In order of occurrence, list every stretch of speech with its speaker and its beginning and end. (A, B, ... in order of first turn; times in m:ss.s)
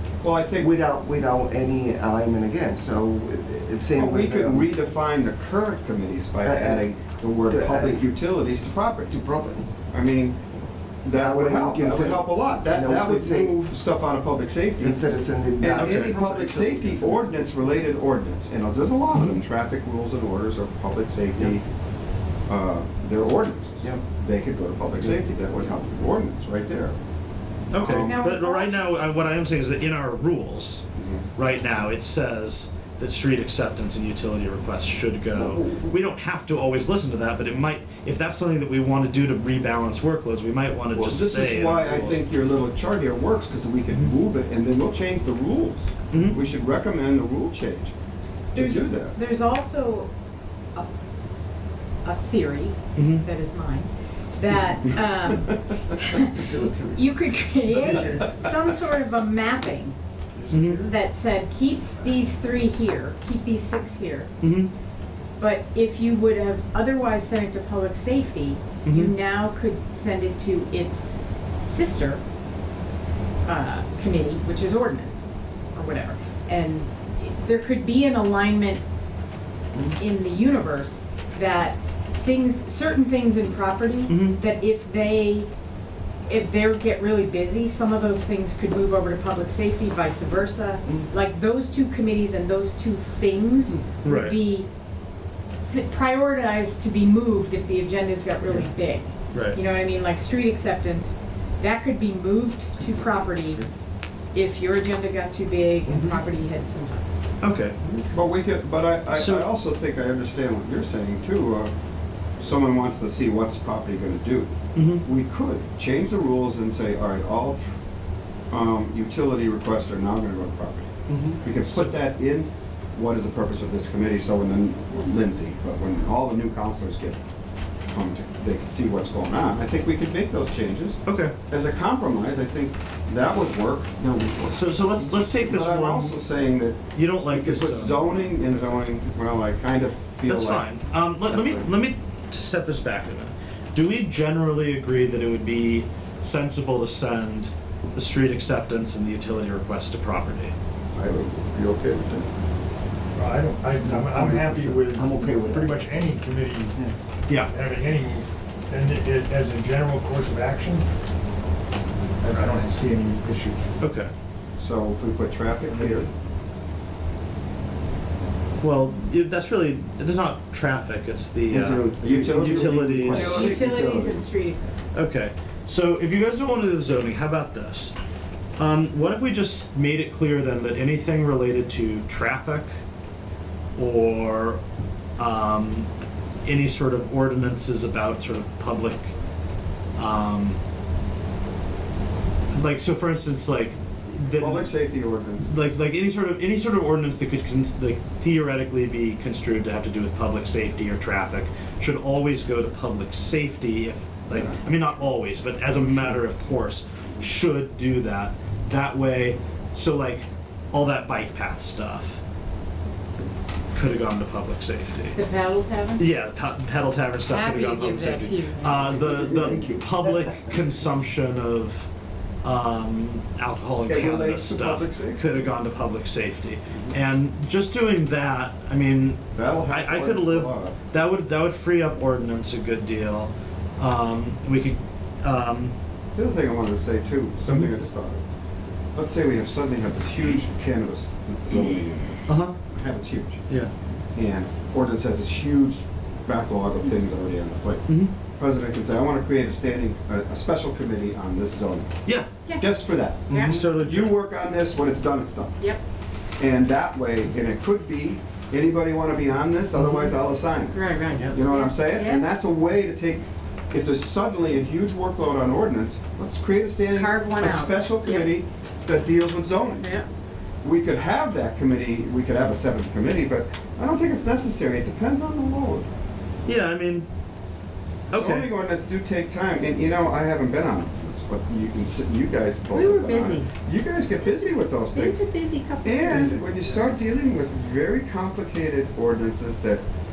0:00.2-0:00.8 A
0:00.6-0:04.7 B
0:04.0-0:09.2 A
0:06.4-0:06.9 B
0:07.5-0:08.0 B
0:09.1-0:09.7 B
0:09.9-0:10.4 A
0:11.0-0:15.0 A
0:11.1-0:13.7 B
0:14.8-0:17.8 B
0:15.6-0:21.7 A
0:15.8-0:16.1 C
0:22.5-0:27.0 A
0:27.7-0:30.8 C
0:27.7-0:28.2 A
0:28.0-0:29.3 D
0:31.0-0:31.2 A
0:31.4-0:42.2 C
0:35.3-0:35.9 B
0:40.9-0:47.9 A
0:46.1-0:46.4 C
0:48.5-0:49.2 A
0:48.5-0:50.1 D
0:52.0-1:00.0 D
0:52.9-0:53.2 C
0:56.1-0:57.0 B
0:57.7-0:58.3 B
1:00.5-1:00.8 C
1:00.5-1:00.8 E
1:00.8-1:04.3 D
1:04.4-1:04.7 C
1:05.4-1:12.2 D
1:08.8-1:09.1 C
1:13.5-1:18.8 D
1:20.0-1:25.5 D
1:24.1-1:24.4 C
1:26.2-1:34.7 D
1:34.0-1:34.4 C
1:35.7-1:43.6 D
1:39.3-1:39.6 C
1:44.3-1:47.1 D
1:45.9-1:46.2 B
1:47.4-1:47.8 C
1:47.8-1:48.2 B
1:48.1-1:51.7 A
1:49.1-1:49.5 C
1:52.4-1:54.5 A
1:54.8-1:55.0 C
1:55.0-1:57.6 A
1:58.5-2:07.2 A
2:01.1-2:01.4 B
2:07.9-2:20.7 A
2:11.0-2:11.3 C
2:14.1-2:14.6 B
2:14.5-2:16.2 C
2:16.9-2:18.0 C
2:20.2-2:30.5 C
2:21.3-2:21.6 A
2:30.9-2:32.3 A
2:33.2-2:36.8 E
2:33.8-2:35.8 B
2:37.4-2:40.8 E
2:42.2-2:43.7 E
2:43.8-2:44.1 C
2:44.6-2:46.1 A
2:45.7-2:46.0 E
2:48.6-2:53.3 C
2:51.5-2:53.6 B
2:52.0-2:54.2 A
2:53.1-2:54.8 D
2:54.9-2:57.9 C
2:58.6-3:02.7 C
3:03.8-3:04.6 C
3:05.2-3:05.9 C
3:06.4-3:09.1 C
3:10.0-3:10.6 C
3:12.5-3:14.7 C
3:14.4-3:15.5 A
3:15.4-3:32.2 C
3:24.3-3:24.6 A
3:33.7-3:35.2 C
3:35.2-3:36.1 D
3:36.0-3:41.9 C
3:37.2-3:38.8 D
3:38.7-3:40.4 B
3:42.4-3:55.7 C
3:43.8-3:45.3 A
3:49.3-3:50.8 A
3:56.2-3:58.2 A
3:58.9-4:03.4 A
4:02.3-4:02.6 C
4:04.2-4:07.8 A
4:07.9-4:08.1 C
4:08.4-4:12.0 A
4:12.1-4:12.3 C
4:12.6-4:15.6 A
4:13.3-4:13.6 D
4:13.3-4:13.7 B
4:13.4-4:14.2 C
4:16.4-4:29.9 A
4:19.8-4:20.2 B
4:20.7-4:22.3 D
4:26.9-4:28.3 D
4:29.8-4:30.1 D
4:30.6-4:35.9 A
4:36.4-4:37.1 C
4:38.1-4:38.5 C
4:38.1-4:45.2 A
4:42.7-4:43.5 D
4:44.9-4:46.4 D
4:45.8-4:49.8 A